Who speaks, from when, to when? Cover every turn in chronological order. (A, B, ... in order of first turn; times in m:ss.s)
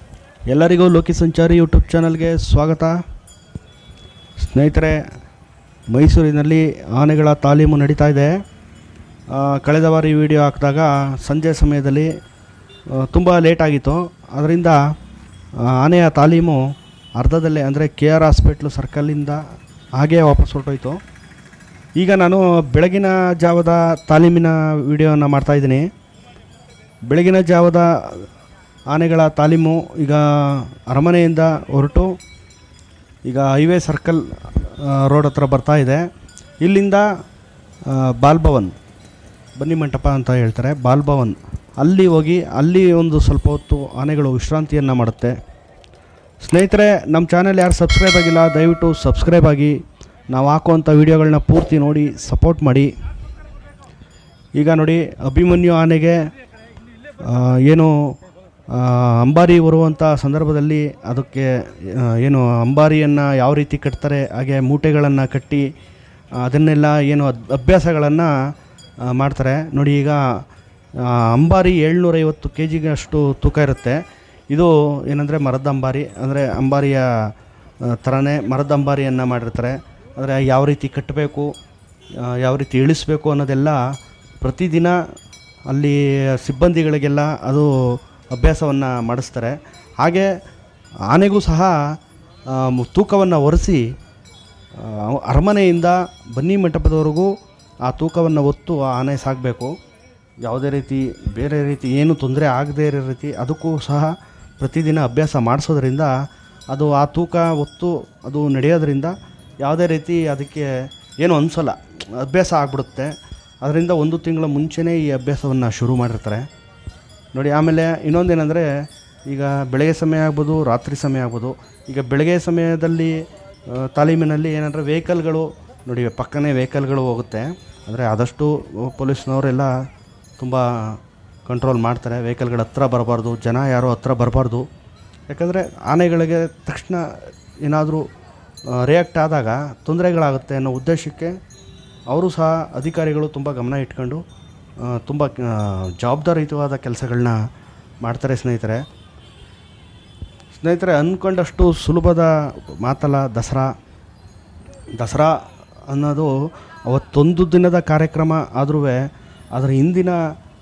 0:00.5-0:03.0 A
0:04.4-0:05.0 A
0:05.9-0:08.3 A
0:09.3-0:12.1 A
0:12.9-0:14.8 A
0:15.6-0:19.4 A
0:20.0-0:21.0 A
0:22.0-0:25.8 A
0:27.1-0:28.2 A
0:28.9-0:32.2 A
0:33.2-0:36.0 A
0:36.6-0:37.1 A
0:37.8-0:38.7 A
0:39.6-0:45.3 A
0:46.4-0:52.9 A
0:54.6-0:56.2 A
0:57.2-0:58.2 A
0:58.7-1:05.6 A
1:06.4-1:10.4 A
1:11.0-1:17.3 A
1:17.8-1:21.5 A
1:22.2-1:25.0 A
1:25.7-1:30.3 A
1:31.1-1:32.0 A
1:32.5-1:33.8 A
1:34.7-1:37.3 A
1:37.8-1:39.7 A
1:40.4-1:46.1 A
1:46.7-1:56.5 A
1:57.3-1:58.7 A
1:59.3-2:09.7 A
2:10.4-2:14.6 A
2:15.3-2:18.0 A
2:18.7-2:21.3 A
2:22.1-2:24.2 A
2:24.8-2:27.4 A
2:28.0-2:28.8 A
2:30.5-2:33.7 A
2:35.0-2:40.2 A